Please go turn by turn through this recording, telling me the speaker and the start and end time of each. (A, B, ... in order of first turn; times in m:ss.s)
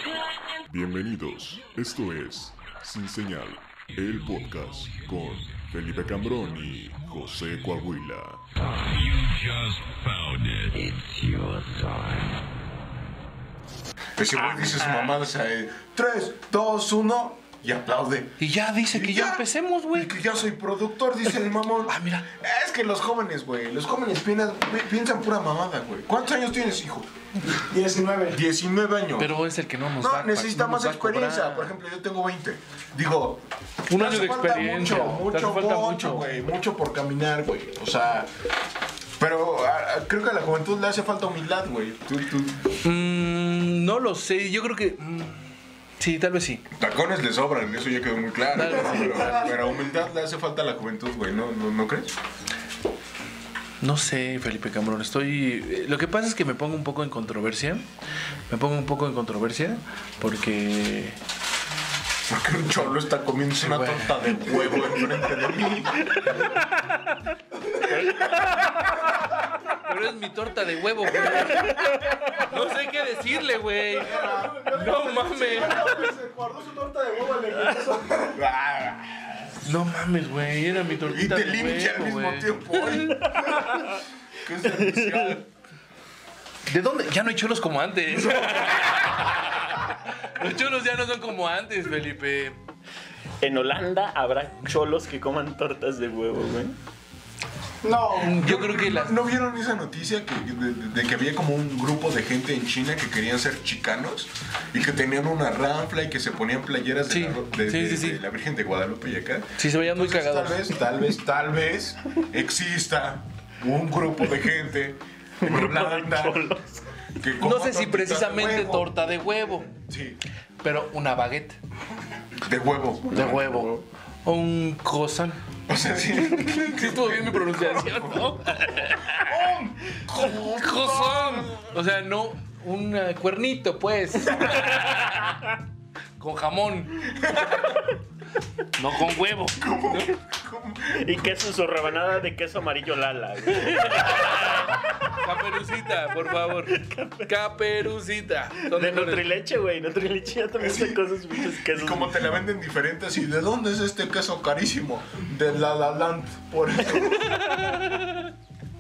0:00.7-0:08.4 A
0:08.7-0:12.3 B
0:14.2-0:27.1 C
0:18.4-0:20.1 D
0:21.9-0:22.2 D
0:27.6-0:28.4 E
0:28.3-0:29.3 C
0:29.2-0:31.7 D
0:30.0-0:38.3 C
0:33.9-0:36.3 D
0:39.2-0:42.8 C
0:42.8-0:46.6 D
0:46.7-0:52.1 C
0:48.5-0:49.6 D
0:53.8-0:57.9 D
0:58.5-1:01.2 D
1:02.3-1:06.4 C
1:03.6-1:04.4 D
1:09.7-1:16.1 D
1:14.0-1:18.4 E
1:14.0-1:14.6 C
1:18.3-1:19.7 C
1:19.6-1:23.5 D
1:21.0-1:23.7 C
1:24.4-1:25.5 C
1:24.7-1:25.4 F
1:26.7-1:32.6 D
1:33.4-1:36.8 F
1:37.8-1:38.4 E
1:38.2-1:39.2 D
1:38.2-1:56.5 C
1:47.1-1:48.2 D
1:49.6-1:50.7 D
1:55.4-1:56.8 F
1:57.2-1:59.0 C
1:57.4-1:59.7 D
1:59.9-2:00.2 C
2:00.6-2:01.6 D
2:02.4-2:03.6 C
2:03.1-2:03.8 F
2:03.1-2:05.4 D
2:05.7-2:11.5 C
2:06.3-2:09.4 D
2:10.4-2:15.4 D
2:16.2-2:17.6 D
2:17.2-2:17.7 C
2:18.8-2:20.1 D
2:19.5-2:21.4 C
2:21.0-2:25.2 F
2:23.6-2:29.3 D
2:26.5-2:27.3 F
2:28.6-2:32.2 F
2:30.6-2:37.5 C
2:37.1-2:38.2 D